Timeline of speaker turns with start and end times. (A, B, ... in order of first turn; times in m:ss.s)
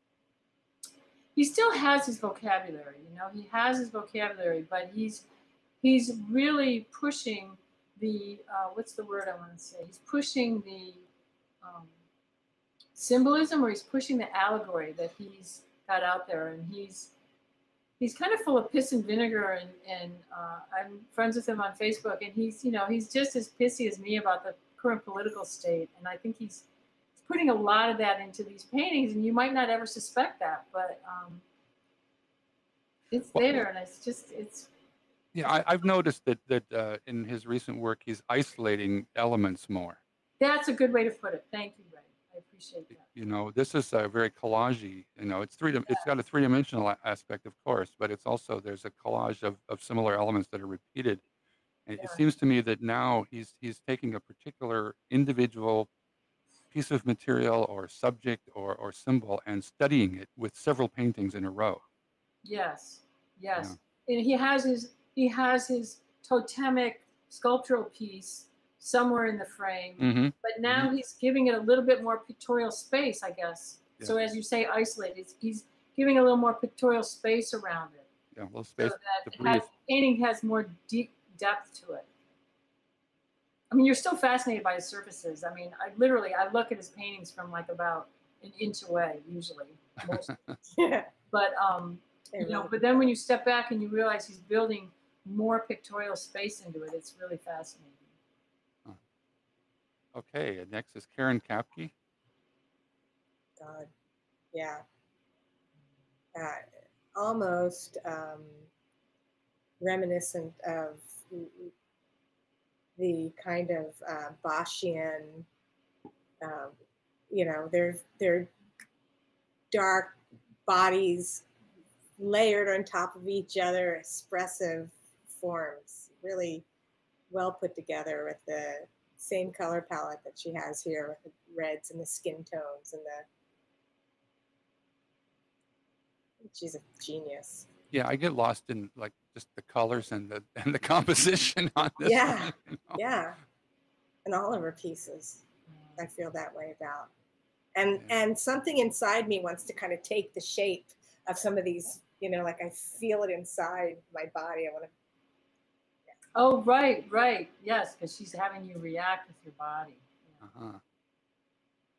0:01.4-0:05.3 A
0:05.8-0:11.1 A
0:11.6-0:11.9 A
0:13.0-0:17.1 A
0:18.0-0:26.7 A
0:27.2-0:31.4 A
0:33.1-0:34.7 A
0:33.4-0:33.6 B
0:35.3-0:40.0 B
0:40.4-0:43.0 A
0:43.0-0:51.2 B
0:51.9-0:55.9 B
0:56.7-1:01.8 B
1:02.4-1:18.1 A
1:10.0-1:10.9 B
1:18.4-1:19.7 B
1:18.8-1:22.1 A
1:23.7-1:30.3 A
1:30.7-1:31.1 C
1:31.3-1:38.1 A
1:32.3-1:32.8 C
1:40.2-1:41.9 B
1:43.6-1:43.9 C
1:44.5-1:44.8 C
1:46.3-1:48.7 C
1:49.8-1:51.7 C
1:53.0-1:55.5 C
1:56.4-1:56.8 C
1:57.3-1:58.5 C
1:59.7-2:01.4 C
2:02.2-2:06.7 C
2:07.3-2:13.3 C
2:16.4-2:17.7 C
2:17.9-2:23.0 B
2:22.0-2:23.4 C
2:24.2-2:25.4 C
2:26.0-2:27.1 C
2:27.8-2:34.9 C
2:36.4-2:40.4 A
2:40.4-2:40.8 B